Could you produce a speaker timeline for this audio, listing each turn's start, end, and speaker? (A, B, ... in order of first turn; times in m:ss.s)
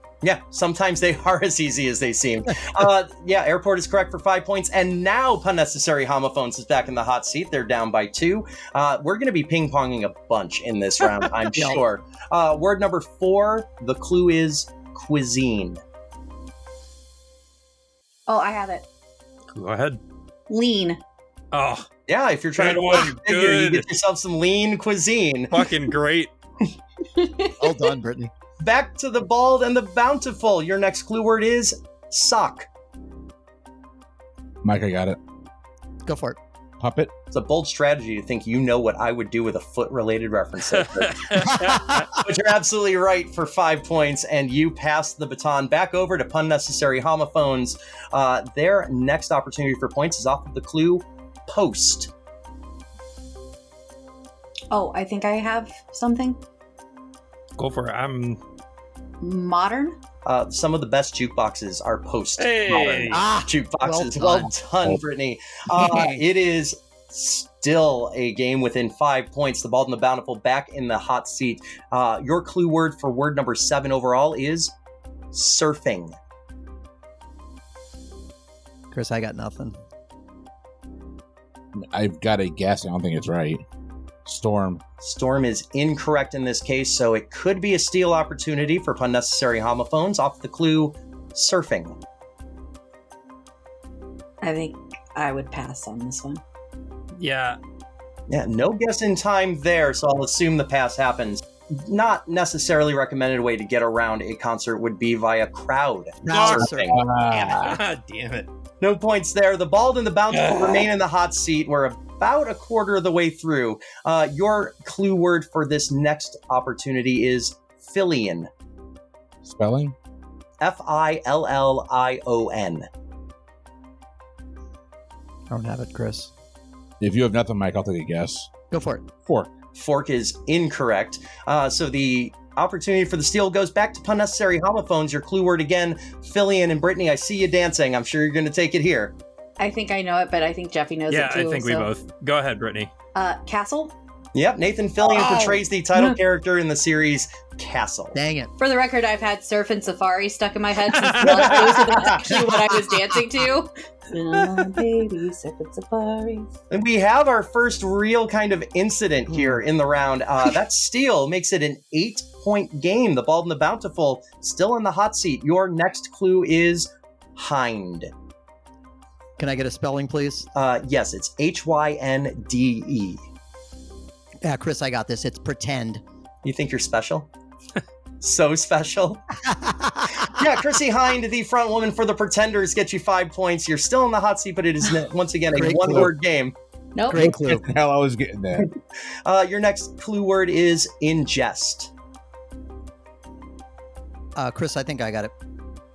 0:00.2-0:15.8 A
0:11.5-0:11.8 B
0:18.3-0:18.8 C
0:19.5-0:20.0 D
0:20.5-0:21.0 C
0:21.5-0:21.9 D
0:22.1-0:25.6 A
0:22.6-0:23.9 D
0:25.5-0:26.3 D
0:27.2-0:27.5 C
0:27.6-0:28.3 B
0:28.6-0:32.7 A
0:34.6-0:35.2 E
0:36.0-0:36.4 B
0:36.8-0:37.1 E
0:37.3-0:52.1 A
0:41.2-0:42.1 D
0:41.5-0:42.1 B
0:54.7-0:56.4 C
0:57.6-0:58.4 D
0:59.2-1:00.0 C
1:00.2-1:14.7 A
1:02.4-1:03.2 D
1:03.1-1:04.5 B
1:05.7-1:06.2 B
1:15.3-1:16.2 A
1:18.9-1:19.8 B
1:21.8-1:23.6 E
1:24.3-1:24.8 E
1:25.0-1:32.0 A
1:34.4-1:36.4 C
1:37.2-1:37.6 D
1:38.3-1:47.0 A
1:46.2-1:47.0 B
1:46.3-1:46.7 D
1:46.9-1:47.8 E
1:47.3-1:48.5 D
1:48.8-1:58.5 A
1:50.3-1:50.9 D
1:59.4-2:00.0 E
2:00.6-2:02.9 A
2:05.5-2:06.3 B
2:07.0-2:08.5 E
2:08.7-2:09.1 B
2:09.2-2:09.5 E
2:09.8-2:19.2 A
2:19.6-2:21.9 C
2:21.1-2:22.9 D
2:23.1-2:24.0 C
2:24.4-2:28.2 A
2:25.0-2:25.6 B
2:28.1-2:28.5 B
2:28.6-2:36.5 C
2:30.9-2:32.0 D
2:31.2-2:32.3 A
2:36.7-2:48.1 A
2:39.3-2:39.6 B
2:49.4-2:50.5 B
2:50.5-2:53.2 A
2:54.4-2:56.0 B
2:56.4-2:57.3 A
2:58.2-2:59.2 A
2:59.4-3:00.4 B
3:00.3-3:06.6 A
3:05.6-3:06.1 B
3:07.0-3:07.3 C
3:07.1-3:07.7 B
3:07.1-3:08.7 E
3:09.2-3:11.9 A
3:14.4-3:15.3 B